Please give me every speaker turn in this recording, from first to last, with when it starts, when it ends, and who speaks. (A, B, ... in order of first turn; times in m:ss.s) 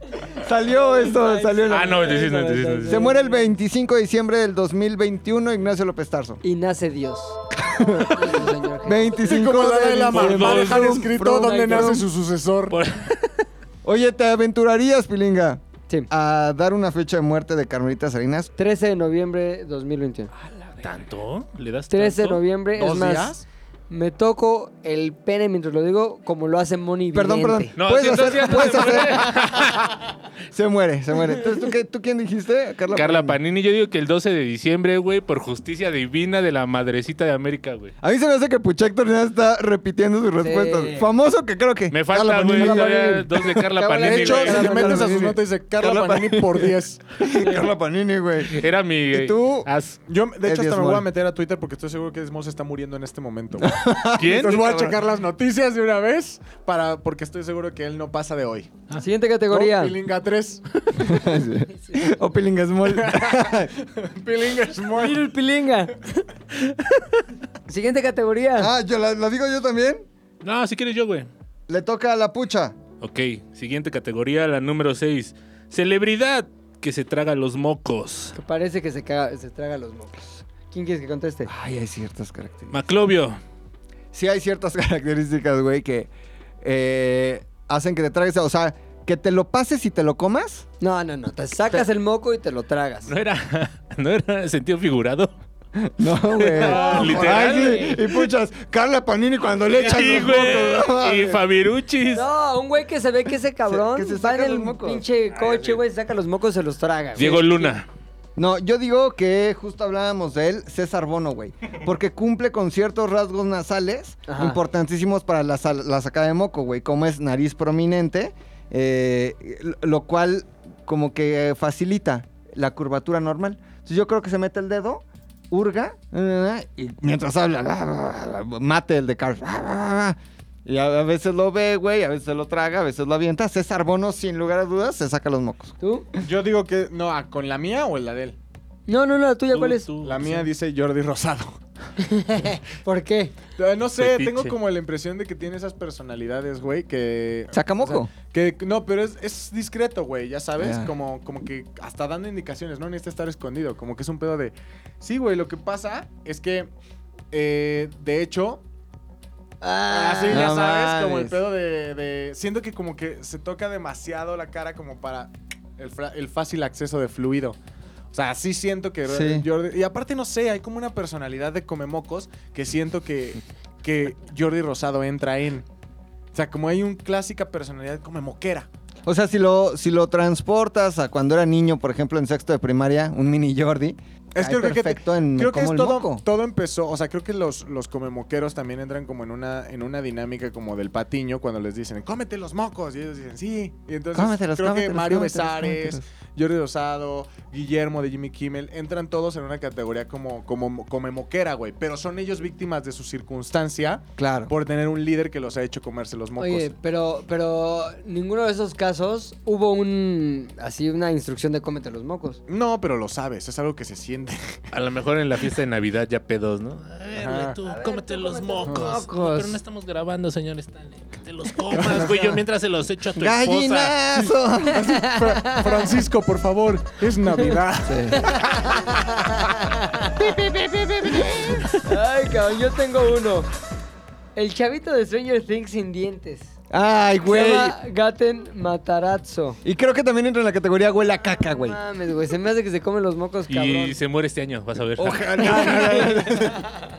0:00.4-0:02.1 A
0:00.6-0:03.5 B
0:01.7-0:03.1 C
0:02.9-0:06.4 A
0:06.4-0:09.2 B
0:07.6-0:12.0 A
0:09.2-0:12.8 D
0:10.1-0:11.1 C
0:11.0-0:12.1 B
0:12.7-0:13.4 C
0:13.8-0:18.5 A
0:18.6-0:20.3 B
0:20.7-0:22.4 C
0:21.9-0:23.4 B
0:22.8-0:23.4 D
0:23.9-0:27.7 B
0:27.1-0:29.8 A
0:27.8-0:29.9 C
0:30.5-0:33.4 A
0:32.9-0:37.9 C
0:38.0-0:49.7 A
0:40.4-0:41.1 B
0:41.9-0:45.0 C
0:42.6-0:43.2 B
0:43.8-0:45.0 B
0:44.0-0:47.0 D
0:48.4-0:50.0 C
0:50.1-0:58.7 D
0:50.4-0:51.1 A
0:53.6-0:55.0 A
0:54.2-0:54.7 C
0:59.0-1:00.0 B
0:59.5-1:00.6 D
1:01.0-1:03.7 A
1:02.9-1:05.3 D
1:05.0-1:06.0 B
1:07.7-1:08.7 B
1:08.6-1:10.0 A
1:10.4-1:11.3 C
1:11.7-1:12.8 A
1:13.0-1:18.4 C
1:18.4-1:21.5 B
1:21.5-1:22.8 A
1:22.7-1:23.4 C
1:24.1-1:26.1 A
1:26.6-1:30.7 A
1:30.8-1:33.1 B
1:33.1-1:35.3 C
1:35.8-1:41.4 A
1:36.3-1:38.3 C
1:36.5-1:38.0 B
1:39.8-1:42.3 C
1:42.1-1:47.8 B
1:43.7-1:45.0 A
1:45.3-1:45.8 C
1:47.2-1:47.9 C
1:48.4-2:15.7 A
1:54.3-1:54.6 B
2:15.8-2:16.1 B
2:16.2-2:18.4 D
2:18.9-2:19.9 B
2:19.5-2:20.5 C
2:20.0-2:21.6 D
2:22.0-2:23.3 B
2:23.6-2:36.7 D
2:24.0-2:24.6 C
2:27.5-2:28.1 A
2:30.6-2:30.9 A
2:37.3-2:38.6 D
2:39.6-2:40.6 B
2:39.9-2:47.6 D
2:40.3-2:41.4 A
2:48.1-2:55.7 D
2:49.1-2:49.5 A
2:56.3-2:58.7 D
2:59.0-3:06.2 A
3:04.4-3:26.7 D
3:14.1-3:16.0 A
3:24.2-3:24.5 A
3:26.4-3:32.4 B
3:32.5-3:34.6 D
3:34.7-3:44.0 C
3:37.2-3:37.6 D
3:37.6-3:39.6 B
3:38.6-3:39.0 D
3:41.7-3:42.4 D
3:43.2-3:45.0 A
3:44.7-3:48.7 D
3:44.7-3:45.9 B
3:47.9-3:48.4 A
3:48.2-3:50.1 B
3:50.2-3:51.7 A
3:51.8-3:53.5 B
3:54.4-3:56.5 B
3:56.7-3:57.8 A
3:57.2-3:59.6 B
3:59.6-4:01.8 A
4:01.4-4:04.0 B
4:03.5-4:05.7 C
4:05.0-4:06.6 A
4:05.4-4:06.8 B